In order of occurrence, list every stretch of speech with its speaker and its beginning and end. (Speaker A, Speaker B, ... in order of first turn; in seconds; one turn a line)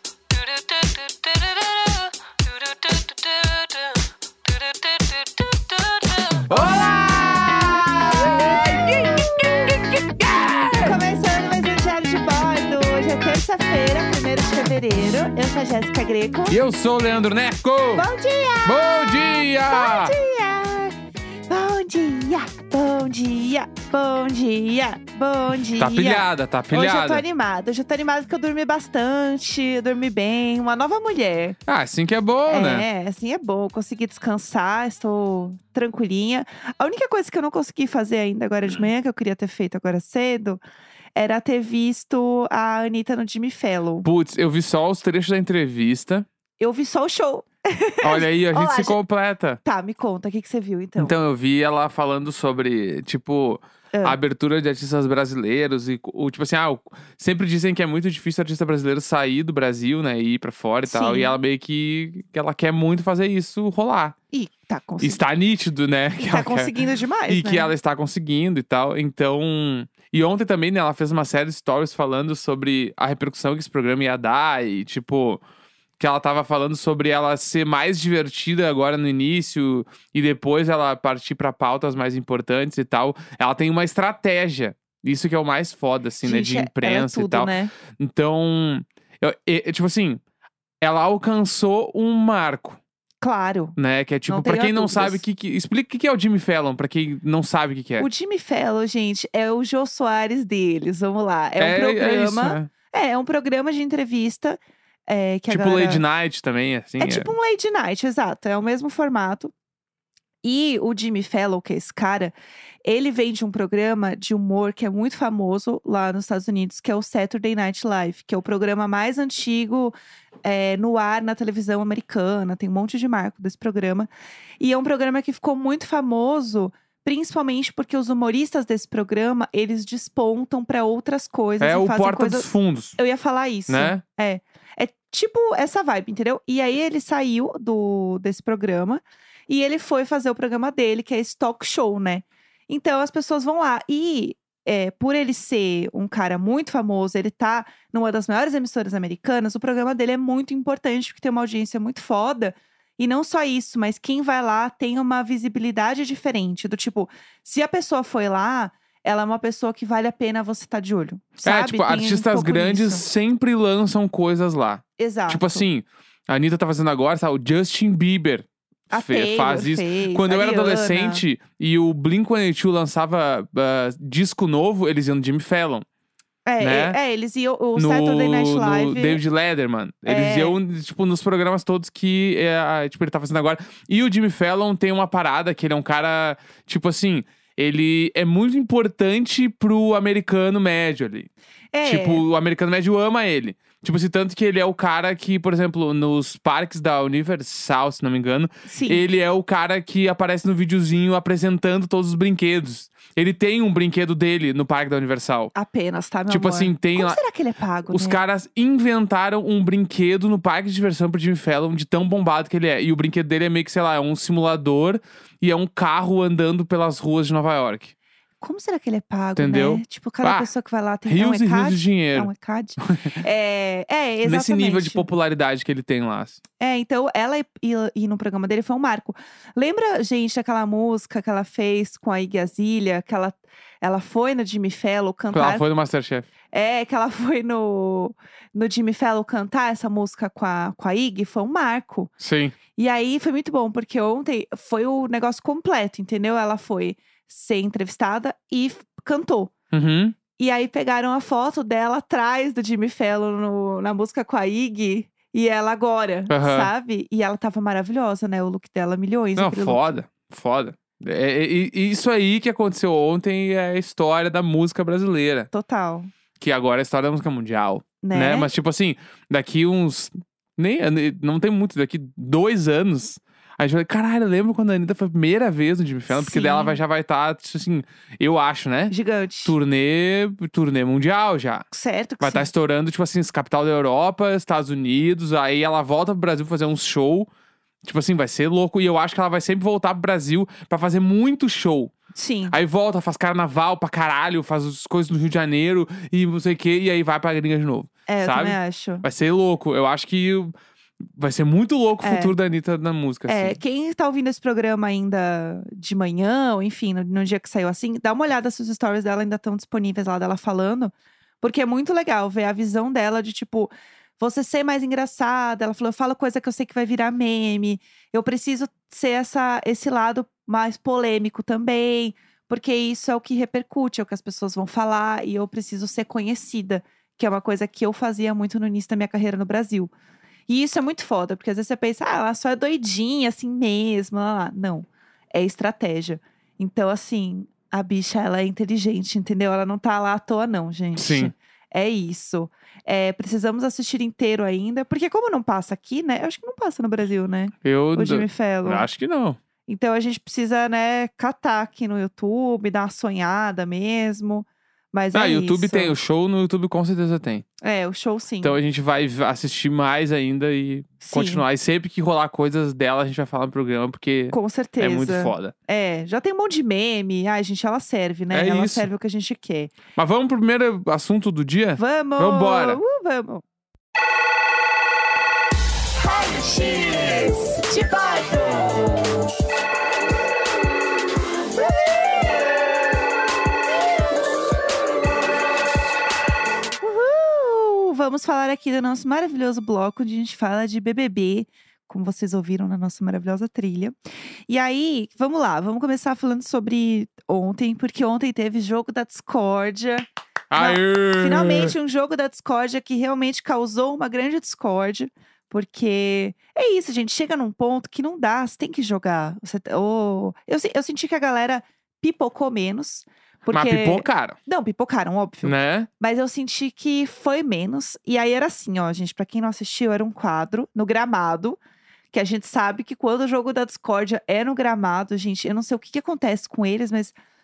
Speaker A: 0.3-2.0
Speaker A: 2.8-3.7
Speaker A: 6.5-11.0
Speaker B: 6.5-9.7
Speaker B: 10.8-16.6
Speaker A: 16.5-18.1
Speaker B: 17.9-20.9
Speaker A: 18.6-20.1
Speaker B: 21.5-31.6
Speaker A: 25.8-27.2
Speaker A: 31.7-32.9
Speaker B: 32.5-40.6
Speaker B: 41.2-44.1
Speaker A: 44.0-46.3
Speaker B: 46.6-49.0
Speaker A: 48.0-49.6
Speaker B: 49.6-51.1
Speaker A: 51.0-64.2
Speaker B: 53.9-54.2
Speaker B: 60.9-61.4
Speaker B: 64.3-65.2
Speaker A: 65.0-66.7
Speaker B: 66.2-67.7
Speaker A: 67.3-75.4
Speaker A: 76.0-90.2
Speaker B: 86.2-87.7
Speaker A: 90.8-92.8
Speaker B: 93.2-95.2
Speaker A: 93.8-98.1
Speaker B: 98.0-106.0
Speaker A: 101.6-102.7
Speaker A: 105.5-107.3
Speaker B: 107.0-109.5
Speaker B: 110.4-119.9
Speaker B: 120.5-124.1
Speaker B: 124.6-163.1
Speaker A: 131.6-133.0
Speaker A: 133.7-134.0
Speaker A: 161.4-175.8
Speaker B: 165.0-165.7
Speaker B: 168.9-171.2
Speaker B: 176.5-179.2
Speaker A: 176.6-177.0
Speaker A: 177.8-191.3
Speaker B: 180.1-180.6
Speaker B: 191.7-192.2
Speaker A: 191.8-205.5
Speaker B: 198.7-199.0
Speaker B: 205.6-208.2
Speaker A: 206.3-207.2
Speaker A: 207.9-217.9
Speaker B: 218.4-225.1
Speaker A: 219.4-220.5
Speaker A: 221.1-223.2
Speaker A: 224.2-226.4
Speaker B: 226.6-235.6
Speaker A: 235.3-236.3
Speaker B: 236.5-242.1
Speaker A: 242.2-242.6
Speaker B: 242.8-249.5
Speaker A: 249.7-250.2
Speaker B: 250.4-260.0
Speaker A: 256.3-256.7
Speaker A: 259.4-265.5
Speaker B: 265.5-266.1
Speaker A: 266.4-278.9
Speaker B: 268.0-268.5
Speaker B: 276.1-276.8
Speaker B: 278.9-279.6
Speaker A: 279.4-281.7
Speaker B: 281.7-282.5
Speaker A: 282.2-287.3
Speaker A: 287.8-291.9
Speaker B: 292.1-292.6
Speaker A: 292.5-303.6
Speaker B: 298.1-299.1
Speaker B: 302.0-302.4
Speaker B: 303.3-329.9
Speaker B: 330.5-348.9
Speaker A: 341.0-341.3
Speaker A: 347.6-349.4
Speaker B: 349.7-355.9
Speaker A: 355.1-357.4
Speaker B: 357.6-358.6
Speaker A: 358.4-365.5
Speaker B: 361.0-361.4
Speaker B: 364.3-369.8
Speaker A: 368.3-368.9
Speaker A: 370.0-372.8
Speaker B: 371.8-373.4
Speaker B: 376.0-379.0
Speaker B: 381.6-382.3
Speaker B: 386.8-393.9
Speaker B: 394.5-421.6
Speaker A: 400.5-401.7
Speaker A: 413.5-414.4
Speaker A: 415.4-415.9
Speaker B: 422.1-427.1